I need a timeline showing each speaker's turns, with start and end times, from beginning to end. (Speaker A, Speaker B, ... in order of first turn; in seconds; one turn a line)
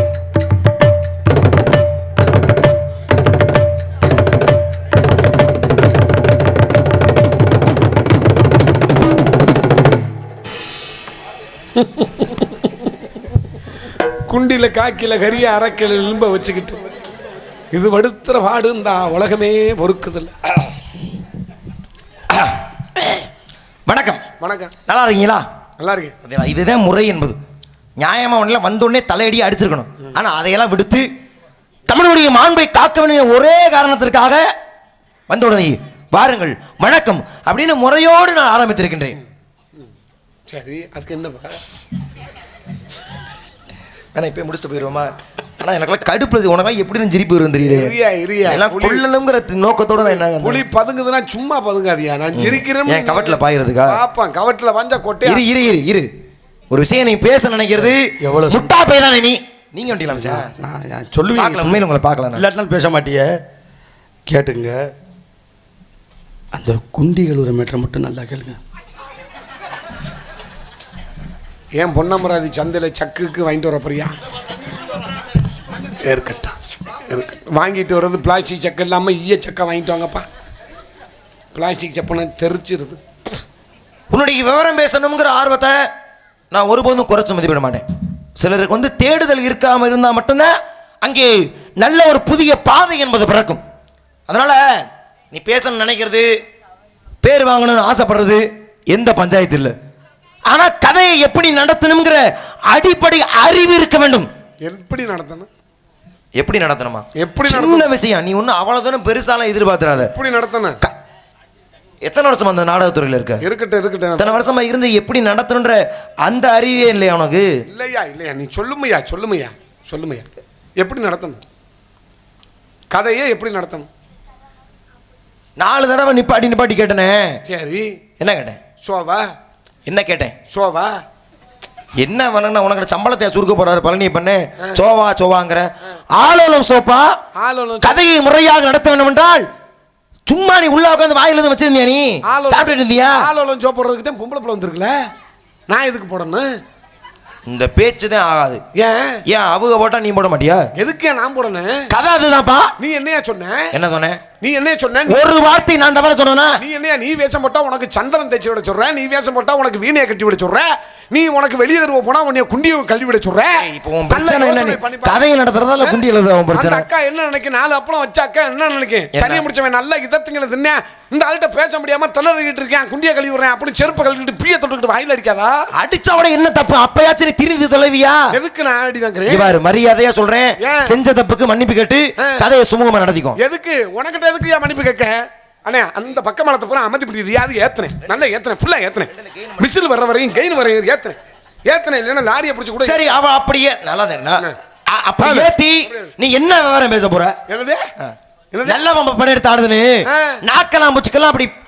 Speaker A: 11.8-12.3
Speaker A: 14.3-16.8
Speaker A: 17.7-20.4
Speaker B: 22.3-23.3
Speaker B: 23.9-24.2
Speaker A: 24.4-24.7
Speaker B: 24.9-25.4
Speaker A: 25.8-26.1
Speaker B: 26.2-27.4
Speaker B: 28.0-31.1
Speaker B: 31.9-34.5
Speaker B: 35.3-39.2
Speaker A: 40.5-41.6
Speaker B: 44.1-48.0
Speaker A: 47.6-49.0
Speaker B: 48.5-50.6
Speaker A: 50.2-55.4
Speaker B: 52.4-54.0
Speaker B: 55.2-56.1
Speaker B: 56.7-60.5
Speaker C: 58.2-58.7
Speaker C: 60.1-61.8
Speaker B: 61.4-62.4
Speaker C: 62.4-63.3
Speaker C: 64.3-64.8
Speaker C: 66.5-68.6
Speaker A: 71.8-74.2
Speaker A: 75.9-76.6
Speaker A: 77.1-80.2
Speaker A: 81.5-83.0
Speaker B: 84.1-85.9
Speaker B: 86.5-87.8
Speaker B: 88.4-93.6
Speaker B: 94.3-94.7
Speaker B: 95.3-96.3
Speaker B: 97.2-99.8
Speaker B: 100.5-104.3
Speaker A: 104.6-105.5
Speaker B: 106.4-110.1
Speaker A: 107.2-107.9
Speaker A: 110.0-110.8
Speaker B: 112.0-113.5
Speaker A: 113.4-114.4
Speaker B: 114.2-117.5
Speaker A: 117.7-120.3
Speaker A: 120.8-121.4
Speaker A: 122.9-123.9
Speaker B: 125.6-127.4
Speaker A: 127.5-128.0
Speaker B: 128.2-128.6
Speaker A: 128.8-129.3
Speaker B: 129.9-130.3
Speaker A: 130.5-131.0
Speaker B: 132.0-137.2
Speaker A: 137.4-138.0
Speaker B: 137.8-139.5
Speaker B: 140.3-143.3
Speaker A: 142.3-145.0
Speaker A: 145.7-146.5
Speaker B: 147.5-148.6
Speaker A: 148.8-149.2
Speaker B: 149.3-150.7
Speaker A: 150.8-151.9
Speaker B: 151.9-152.7
Speaker A: 152.8-153.7
Speaker B: 153.7-154.2
Speaker A: 154.4-155.2
Speaker B: 155.1-156.6
Speaker A: 156.6-165.2
Speaker B: 163.5-166.9
Speaker A: 166.5-175.7
Speaker B: 169.1-169.4
Speaker B: 175.8-178.3
Speaker A: 178.3-179.5
Speaker B: 179.3-183.4
Speaker A: 180.6-180.9
Speaker A: 182.2-182.4
Speaker A: 183.4-193.0
Speaker B: 189.1-189.7
Speaker B: 192.8-197.4
Speaker A: 195.2-196.1
Speaker A: 197.5-197.9
Speaker A: 198.5-198.8
Speaker B: 198.7-201.5
Speaker A: 200.1-200.4